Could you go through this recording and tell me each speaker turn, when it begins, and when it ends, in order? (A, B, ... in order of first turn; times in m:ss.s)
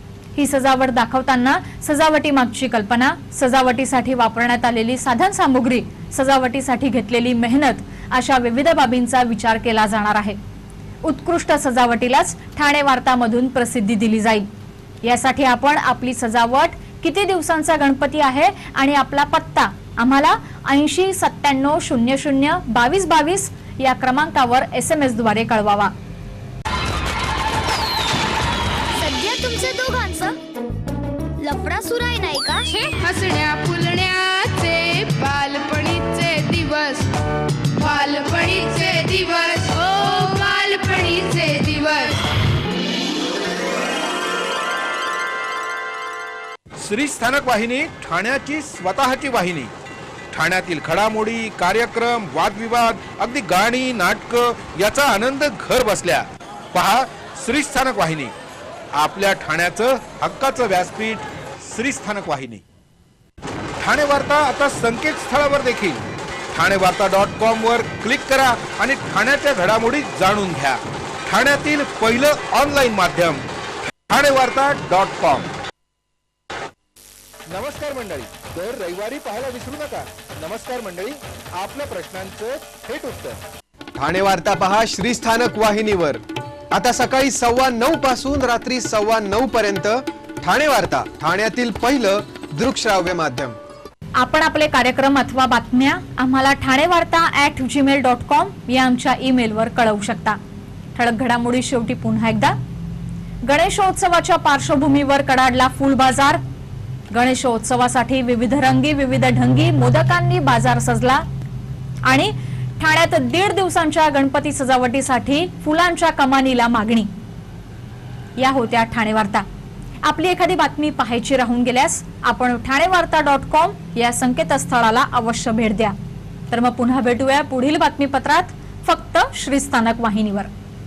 0:00.3-0:10.4 A
0:11.0-0:14.5 A
0:15.0-0:25.9 A
0:29.0-0:30.3 B
0:31.4-0:32.7 B
0:32.7-0:37.0 C
0:37.8-0:42.2 C
0:46.8-0:49.7 D
0:50.3-0:58.3 D
0:59.0-1:02.6 D
1:03.8-1:06.0 D
1:06.5-1:13.4 D
1:14.1-1:15.5 D
1:17.5-1:21.1 D
1:21.6-1:23.2 D
1:24.0-1:26.2 E
1:26.7-1:33.5 E
1:34.2-1:40.4 A
1:40.9-1:42.5 A
1:43.4-1:46.4 A
1:47.1-1:51.2 A
1:52.0-1:57.1 A
1:58.4-1:59.4 A
2:00.0-2:05.9 A
2:06.5-2:10.5 A